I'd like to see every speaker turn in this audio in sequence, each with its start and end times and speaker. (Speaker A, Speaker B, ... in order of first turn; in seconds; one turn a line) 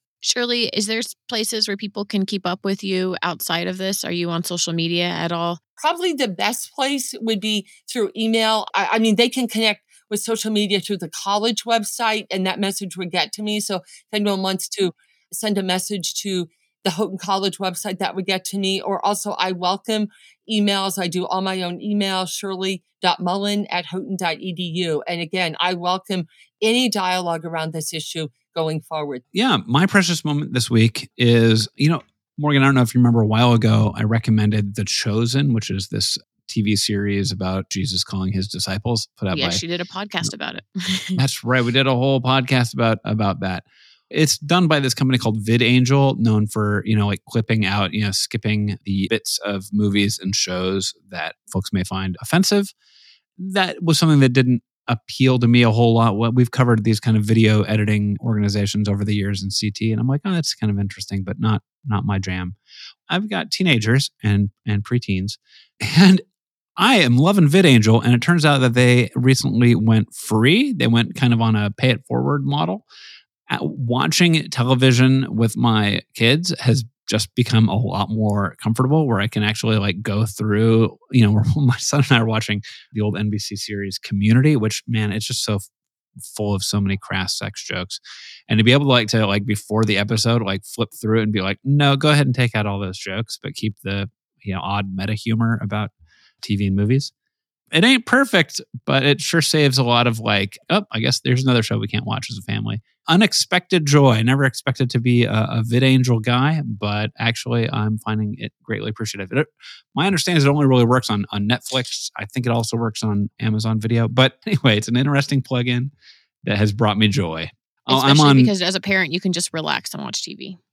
Speaker A: 0.2-5.6
Speaker B: 5.8-29.2
Speaker C: 29.4-39.6
Speaker A: 39.3-41.2
Speaker C: 41.2-52.7
Speaker C: 53.4-62.5
Speaker C: 63.1-66.2
Speaker C: 66.8-72.8
Speaker C: 73.5-85.7
Speaker C: 86.2-95.9
Speaker C: 96.4-97.1
Speaker C: 97.7-115.9
Speaker C: 116.5-118.5
Speaker A: 117.9-120.6